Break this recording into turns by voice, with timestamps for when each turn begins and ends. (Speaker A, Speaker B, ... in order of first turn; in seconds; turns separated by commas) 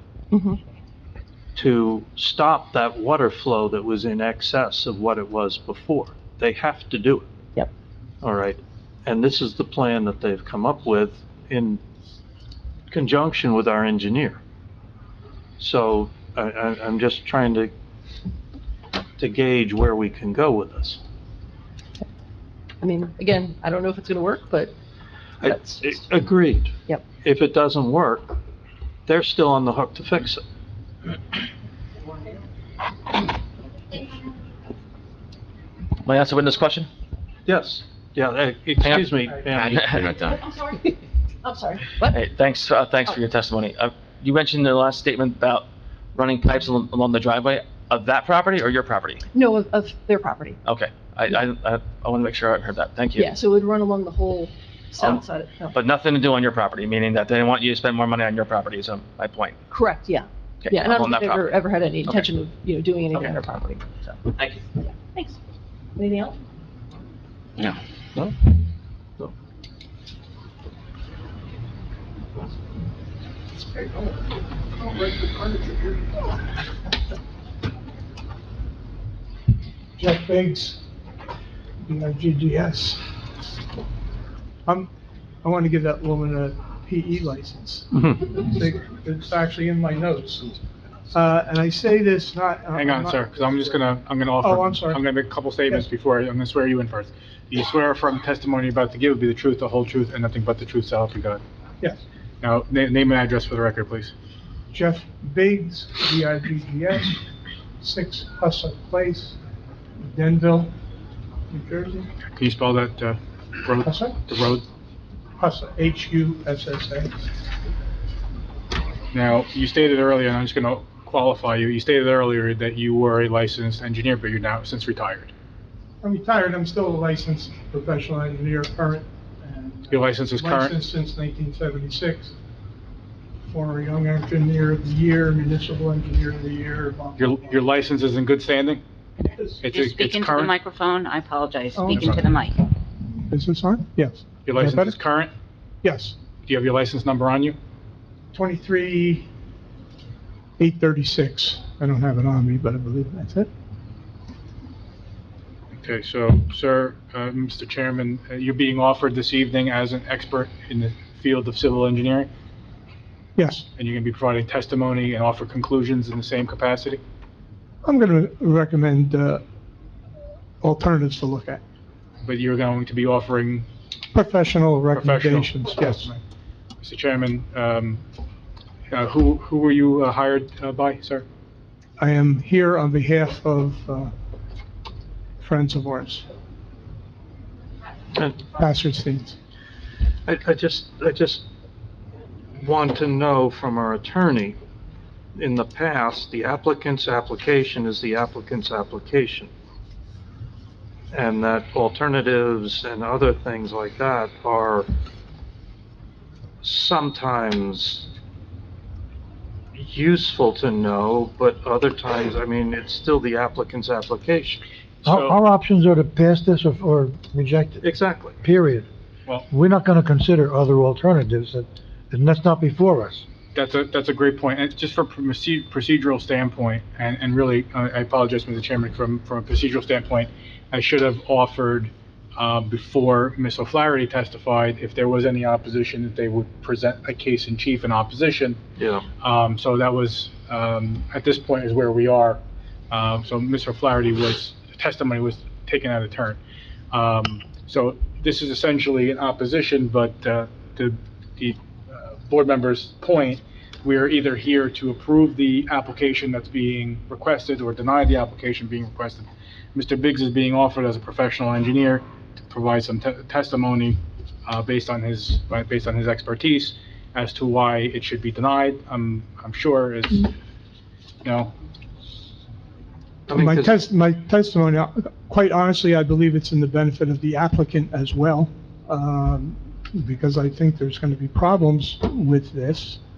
Speaker A: 0.3-0.6, Speaker B: 1.5-7.3, Speaker B: 8.2-11.8, Speaker B: 12.9-14.4, Speaker B: 15.6-17.7, Speaker B: 19.2-21.0, Speaker A: 22.8-24.7, Speaker B: 25.4-28.4, Speaker A: 25.4-26.1, Speaker B: 29.1-30.4, Speaker C: 36.0-36.9, Speaker B: 37.5-40.1, Speaker C: 38.8-40.4, Speaker A: 40.2-42.2, Speaker C: 42.1-49.2, Speaker A: 49.3-50.6, Speaker C: 50.6-53.3, Speaker A: 53.1-55.8, Speaker C: 55.0-59.6, Speaker A: 59.7-64.2, Speaker C: 60.6-62.3, Speaker A: 64.8-65.4, Speaker A: 66.0-66.4, Speaker D: 80.0-80.8, Speaker D: 81.8-83.0, Speaker D: 84.7-84.9, Speaker D: 85.4-90.5, Speaker B: 87.9-88.3, Speaker D: 91.1-93.8, Speaker E: 92.7-101.4, Speaker D: 94.4-95.1, Speaker E: 102.4-104.1, Speaker D: 104.7-107.2, Speaker D: 107.8-109.4, Speaker D: 110.0-110.7, Speaker D: 111.5-112.1, Speaker E: 112.3-114.7, Speaker D: 113.8-114.2, Speaker D: 115.4-117.2, Speaker E: 119.1-125.3, Speaker D: 126.0-132.3, Speaker E: 129.9-130.7, Speaker D: 133.5-137.6, Speaker E: 137.2-138.8, Speaker D: 139.2-139.6, Speaker E: 139.6-140.5, Speaker F: 139.7-142.6, Speaker D: 141.8-142.2, Speaker D: 143.3-145.0, Speaker E: 144.4-145.3, Speaker D: 145.8-146.2, Speaker E: 146.4-147.6, Speaker D: 148.3-149.3, Speaker D: 150.6-153.5, Speaker E: 155.7-162.3, Speaker D: 163.3-163.7, Speaker E: 163.8-167.0, Speaker D: 167.8-169.4, Speaker D: 170.6-171.6, Speaker E: 172.2-173.7, Speaker D: 174.1-176.1, Speaker E: 174.9-176.2, Speaker E: 176.8-178.0, Speaker E: 178.9-181.2, Speaker D: 182.0-184.1, Speaker D: 185.4-186.3, Speaker D: 188.4-189.4, Speaker B: 190.2-191.4, Speaker B: 192.5-194.6, Speaker B: 195.3-199.5, Speaker B: 201.1-204.9, Speaker B: 206.6-208.1, Speaker B: 209.7-214.6, Speaker E: 215.0-215.3, Speaker G: 215.3-217.8, Speaker B: 217.8-218.4, Speaker G: 218.4-218.9, Speaker G: 219.5-223.2, Speaker E: 223.5-238.6, Speaker B: 238.8-239.1, Speaker E: 239.2-242.4, Speaker E: 242.9-246.4, Speaker E: 246.9-270.3, Speaker E: 271.2-271.5, Speaker B: 273.3-273.8, Speaker D: 273.3-283.0